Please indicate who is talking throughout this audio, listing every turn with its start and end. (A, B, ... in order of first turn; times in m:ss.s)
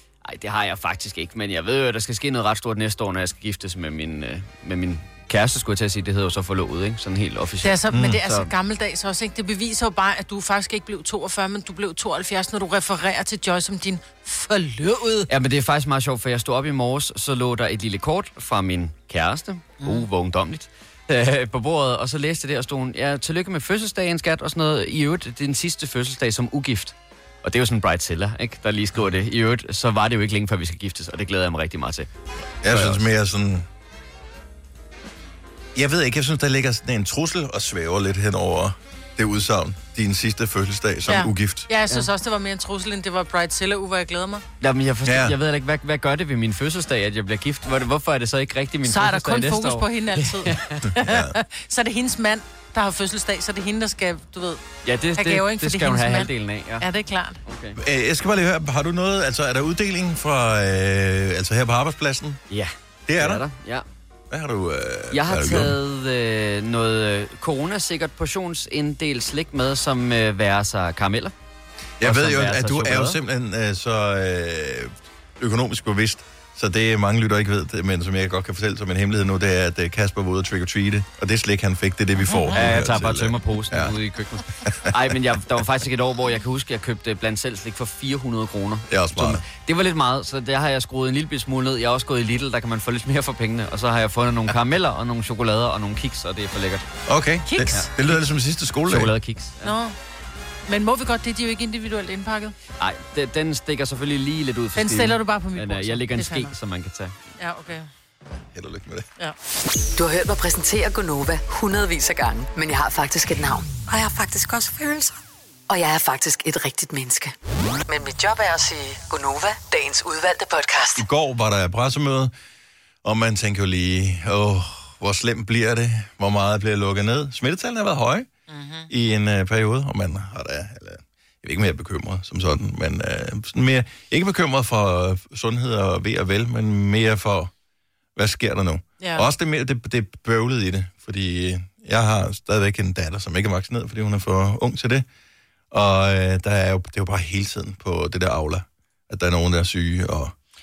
0:00.2-0:08.5 A
0:07.6-0:15.3 B
0:07.9-0:08.2 C
0:15.3-0:32.1 A
0:19.8-0:20.0 B
0:32.6-0:33.6 C
0:32.6-0:33.0 A
0:35.7-0:41.7 C
0:41.1-0:44.4 B
0:44.6-0:50.9 A
0:45.0-0:45.4 C
0:48.9-0:54.6 B
0:51.0-0:51.4 C
0:54.8-0:56.8 A
0:55.2-0:57.4 B
0:57.4-0:57.8 A
0:57.8-1:02.4 C
1:02.5-1:03.8 A
1:03.1-1:03.4 C
1:04.3-1:05.8 C
1:05.1-1:11.3 A
1:12.0-1:23.9 C
1:12.0-1:13.2 A
1:22.2-1:22.6 B
1:22.5-1:36.8 A
1:28.9-1:29.4 C
1:37.1-1:39.1 C
1:37.5-1:37.9 B
1:37.7-1:38.2 A
1:38.9-1:39.7 A
1:39.6-1:40.0 B
1:40.7-1:42.5 B
1:42.8-1:47.2 A
1:44.8-1:46.5 B
1:47.4-1:47.9 B
1:48.4-1:49.1 C
1:50.0-1:55.1 D
1:55.7-1:57.3 D
1:57.9-2:01.0 D
2:01.0-2:02.3 C
2:03.0-2:08.3 C
2:08.5-2:08.9 B
2:08.9-2:17.5 C
2:18.2-2:25.0 C
2:19.0-2:19.3 B
2:25.7-2:30.3 C